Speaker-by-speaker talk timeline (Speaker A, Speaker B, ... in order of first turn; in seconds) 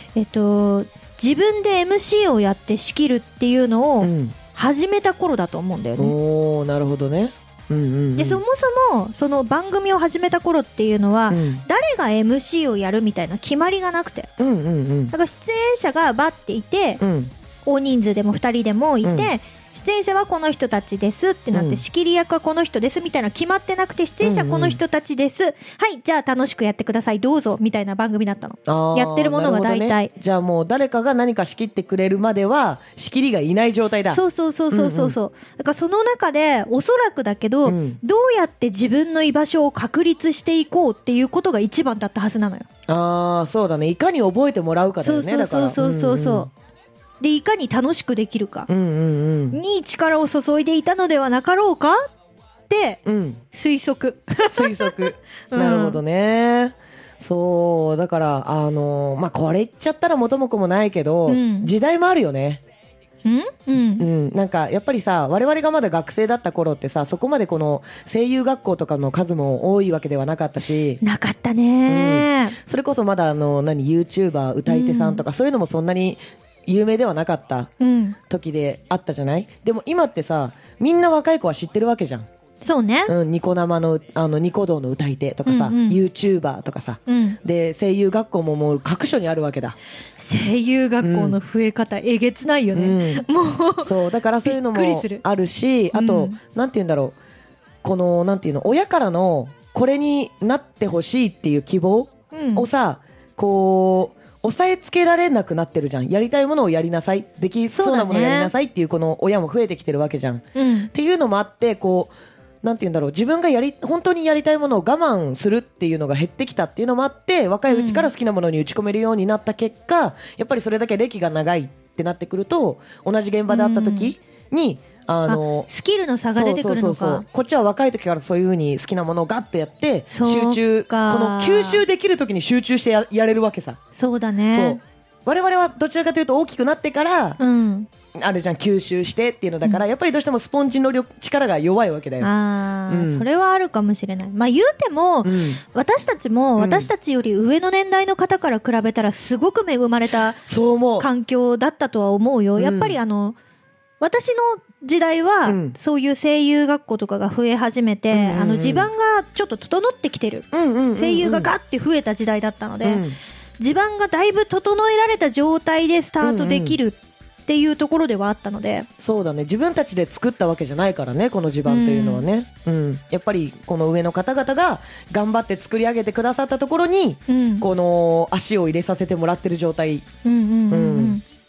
Speaker A: 0.1-6.1, 8.2-14.3, 15.1-17.0, 17.6-30.1, 34.1-42.7, 45.0-46.5, 47.2-48.7, 49.5-52.1, 52.7-53.0, 53.5-56.0, 61.3-61.7, 63.2-64.1, 71.0-72.6, 74.7-75.2, 77.8-78.2, 82.6-83.1, 85.5-86.0, 87.1-87.4, 90.2-93.9, 94.4-95.2, 95.9-96.4, 102.3-102.7, 107.7-108.5, 110.5-110.9, 117.7-118.1, 123.5-124.1, 125.3-127.2, 130.1-131.8, 133.9-134.8, 137.4-137.9, 142.2-150.4, 151.0-153.4, 154.0-163.0, 163.6-168.9, 171.7-172.2, 177.3-177.7, 180.2-181.2
Speaker B: 4.0-4.3, 6.0-8.4, 11.3-11.6, 14.4-15.1, 17.0-17.3, 19.0-19.3, 21.5-21.8, 24.2-24.8, 28.7-34.2, 34.7-35.1, 37.6-38.0, 42.9-46.5, 48.7-49.6, 53.0-53.4, 54.5-62.6, 64.0-71.0, 71.9-77.7, 78.3-82.3, 83.1-89.8, 91.0-91.4, 92.7-93.2, 93.8-97.2, 97.8-125.7, 126.3-133.8, 134.5-137.4, 138.1-142.3, 142.9-143.2, 145.2-145.6, 146.6-146.9, 150.5-151.1, 152.6-153.0, 155.4-155.8, 158.1-158.9, 160.5-161.5, 162.8-163.2, 166.2-166.8, 169.0-180.1, 180.7-181.2